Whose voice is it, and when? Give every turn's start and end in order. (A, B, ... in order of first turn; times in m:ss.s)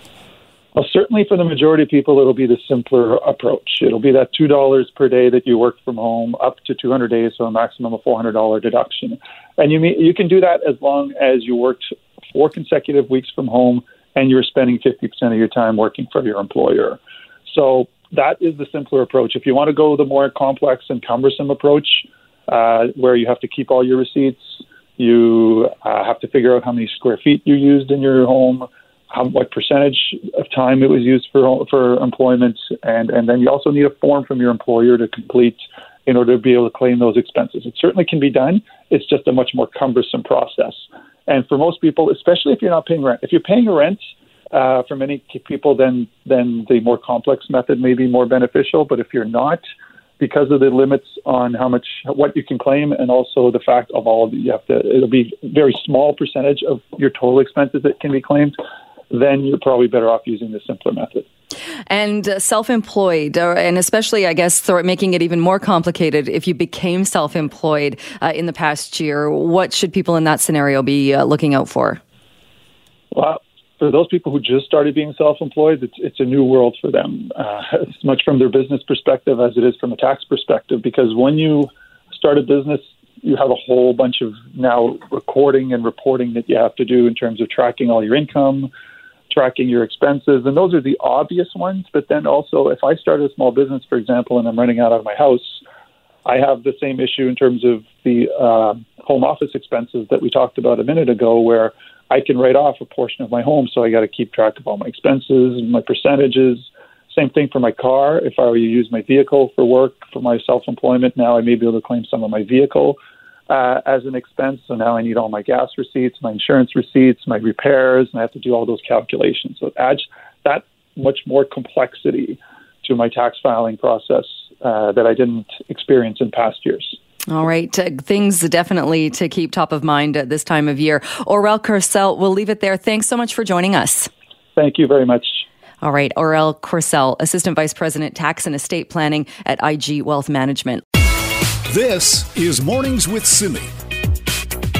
0:00.7-0:49.6 A
0:50.2-0:58.6 A
0:59.1-1:01.2 A
1:01.9-1:12.0 B
1:13.1-1:28.7 A
1:29.3-1:35.6 A
1:36.2-1:53.0 A
1:53.5-2:07.0 A
2:07.3-2:14.1 B
2:14.6-2:15.4 A
2:15.8-2:20.8 B
2:21.6-2:23.7 C